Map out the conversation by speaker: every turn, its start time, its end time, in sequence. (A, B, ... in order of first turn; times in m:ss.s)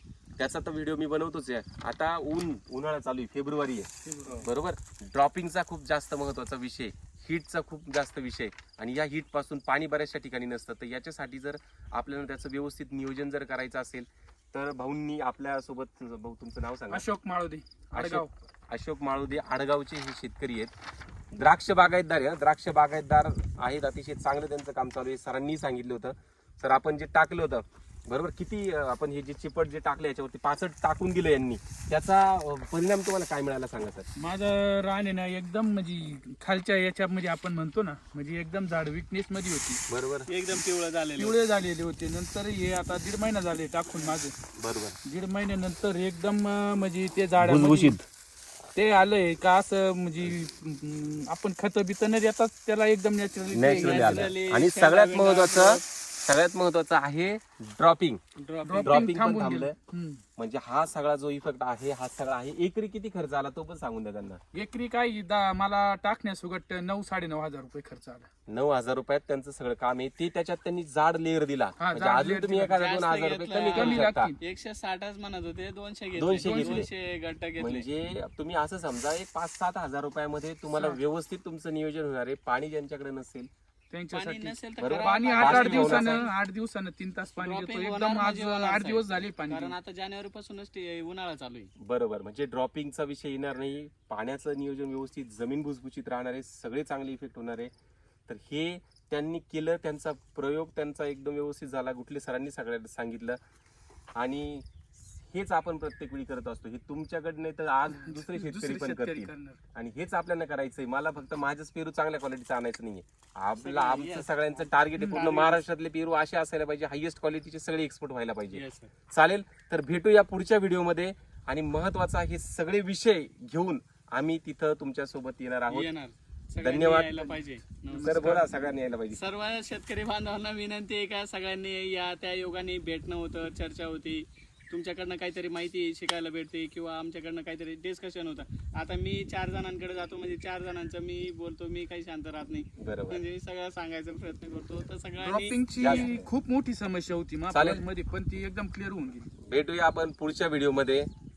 0:00.4-0:17.0 A
0:04.0-0:04.5 B
0:16.9-0:18.4 B
0:17.9-0:20.7 A
0:21.3-0:34.1 A
0:34.2-0:39.8 B
0:39.9-0:40.3 A
0:40.3-0:41.4 C
0:41.2-0:44.3 B
0:44.6-0:45.0 A
0:45.0-0:48.0 B
0:47.4-0:48.0 A
0:48.7-0:54.3 B
0:53.5-0:58.2 A
0:53.6-0:55.8 C
0:58.4-0:59.1 C
0:58.6-1:00.2 B
0:58.8-0:59.8 A
1:00.4-1:04.4 A
1:04.5-1:08.3 B
1:08.5-1:14.3 A
1:11.8-1:12.8 B
1:12.7-1:17.8 C
1:13.7-1:14.4 B
1:16.2-1:16.9 A
1:16.4-1:16.8 B
1:17.6-1:23.5 A
1:23.9-1:29.8 B
1:24.1-1:26.3 C
1:24.8-1:26.2 A
1:27.4-1:31.7 C
1:31.8-1:37.7 A
1:38.3-1:43.4 A
1:44.1-2:05.9 A
1:48.0-1:49.6 B
1:53.6-1:55.6 C
1:55.0-1:55.2 B
1:58.5-1:58.9 C
2:05.7-2:08.3 C
2:06.6-2:07.3 A
2:07.8-2:08.7 B
2:08.0-2:09.2 A
2:09.1-2:26.2 C
2:22.8-2:23.2 A
2:25.2-2:29.3 B
2:25.8-2:26.3 A
2:27.5-2:27.8 A
2:29.4-2:31.1 A